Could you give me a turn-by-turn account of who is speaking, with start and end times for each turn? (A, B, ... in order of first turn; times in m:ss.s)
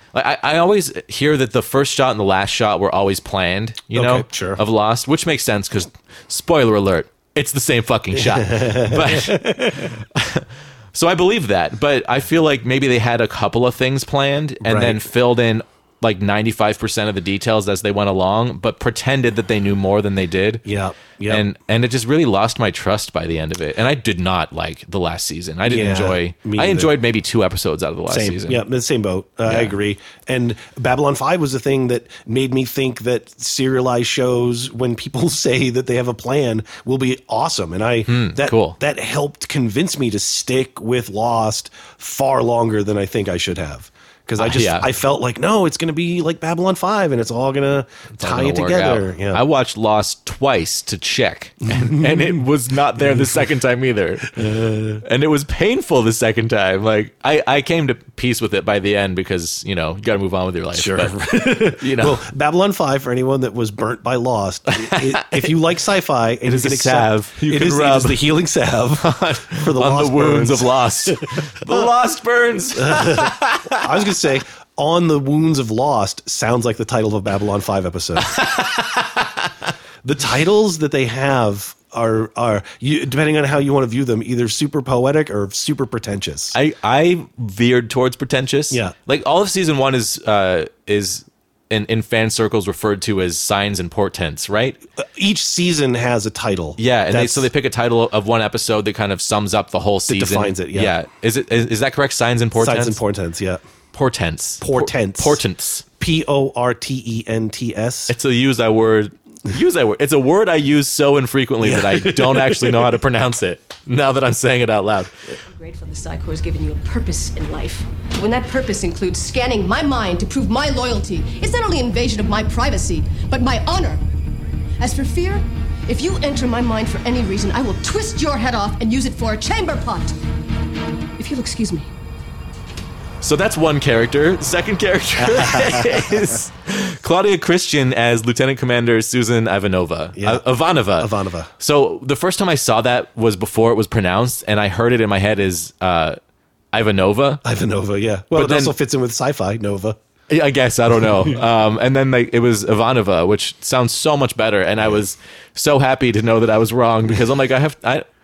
0:00.1-0:20.6 A
0:03.9-0:04.6 B
0:08.1-0:09.9 B
0:14.6-0:15.1 B
0:20.6-0:21.4 B
0:21.3-0:28.6 A
0:25.7-0:26.9 B
0:28.1-0:49.4 B
0:29.5-0:29.7 A
0:38.1-0:38.8 A
0:44.4-0:44.9 A
0:48.2-1:02.2 A
0:51.6-0:52.4 B
0:53.0-0:53.4 B
0:54.3-0:55.0 B
1:00.7-1:11.9 B
1:04.8-1:05.5 A
1:06.5-1:08.2 A
1:09.0-1:13.8 A
1:12.8-1:18.3 B
1:18.2-1:19.5 A
1:20.0-1:26.5 B
1:26.5-1:34.8 A
1:35.1-1:37.5 B
1:36.8-1:43.0 A
1:40.1-1:40.9 B
1:42.6-1:43.6 B
1:43.9-1:45.8 A
1:44.6-1:45.4 B
1:46.0-1:48.1 B
1:48.1-1:55.1 A
1:51.6-1:53.0 B
1:55.4-2:04.0 C
2:04.8-2:10.1 C
2:11.2-2:11.9 C
2:13.2-2:26.2 A
2:15.2-2:16.2 B
2:20.2-2:21.5 B
2:26.7-2:27.4 A
2:27.4-2:30.0 B
2:28.3-2:28.7 A
2:30.3-2:38.0 A
2:31.0-2:31.4 B